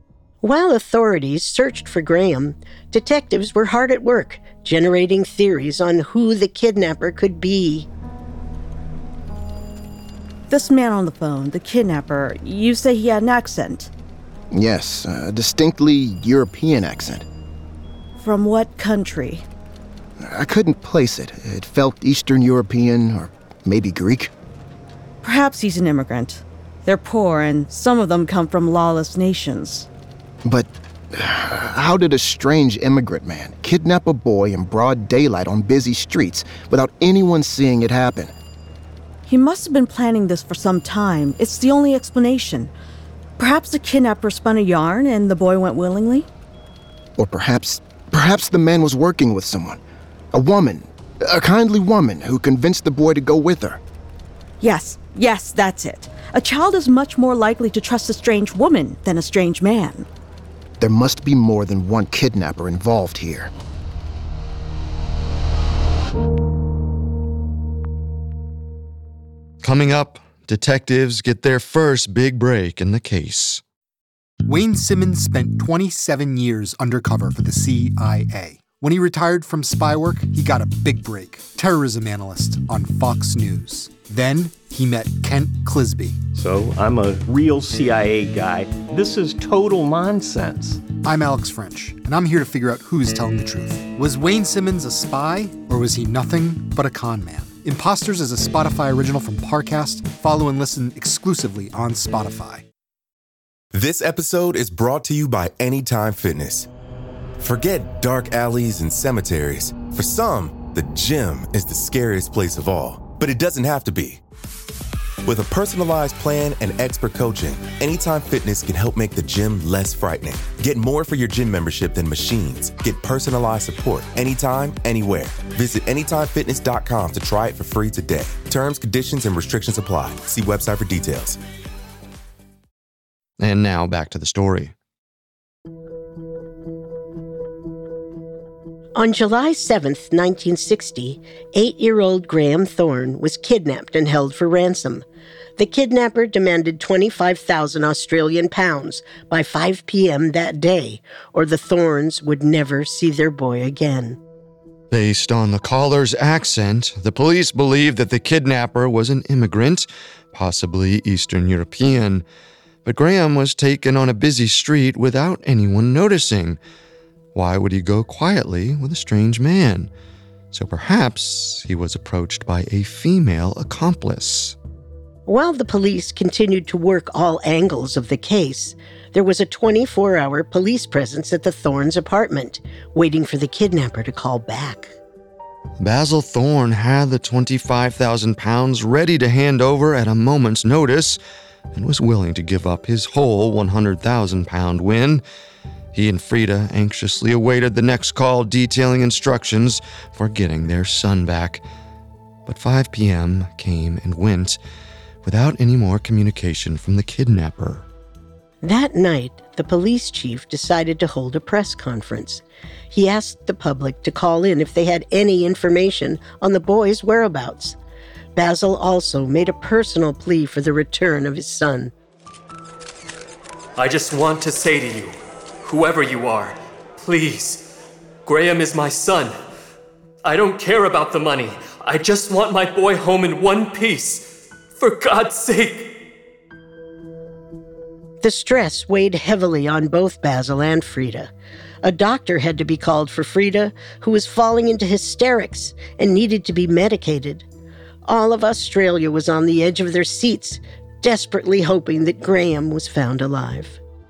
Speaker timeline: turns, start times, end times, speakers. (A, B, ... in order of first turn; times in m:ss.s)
0:00.4-0:07.9 A
0:10.5-0:13.9 B
0:14.5-0:17.2 C
0:18.2-0:19.5 B
0:20.2-0:24.3 C
0:25.2-0:29.9 B
0:30.4-0:38.3 C
0:39.3-0:42.7 B
0:43.4-0:46.3 B
0:47.2-0:49.8 C
0:50.3-0:53.8 C
0:54.6-1:00.1 B
1:00.8-1:03.5 C
1:09.6-1:13.6 D
1:14.5-1:26.2 E
1:26.4-1:27.2 F
1:27.8-1:29.0 F
1:31.0-1:42.6 E
1:43.7-1:46.7 G
1:47.4-1:54.2 G
1:55.2-2:11.4 G
2:13.4-2:14.7 D
2:19.0-2:25.0 A
2:25.6-2:34.2 A
2:34.9-2:42.2 D
2:42.8-2:46.6 D
2:47.4-2:49.9 D
2:50.5-2:54.6 D
2:55.3-3:04.9 A
3:05.8-3:11.2 D
3:11.7-3:15.2 D
3:15.9-3:21.6 D
3:22.5-3:24.6 D
3:25.2-3:27.9 D
3:28.6-3:37.8 A
3:38.4-3:41.9 A
3:43.8-3:47.7 H
3:48.2-3:49.4 H
3:50.2-3:55.9 H
3:58.2-4:01.3 A
4:01.8-4:07.4 A
4:08.1-4:13.8 A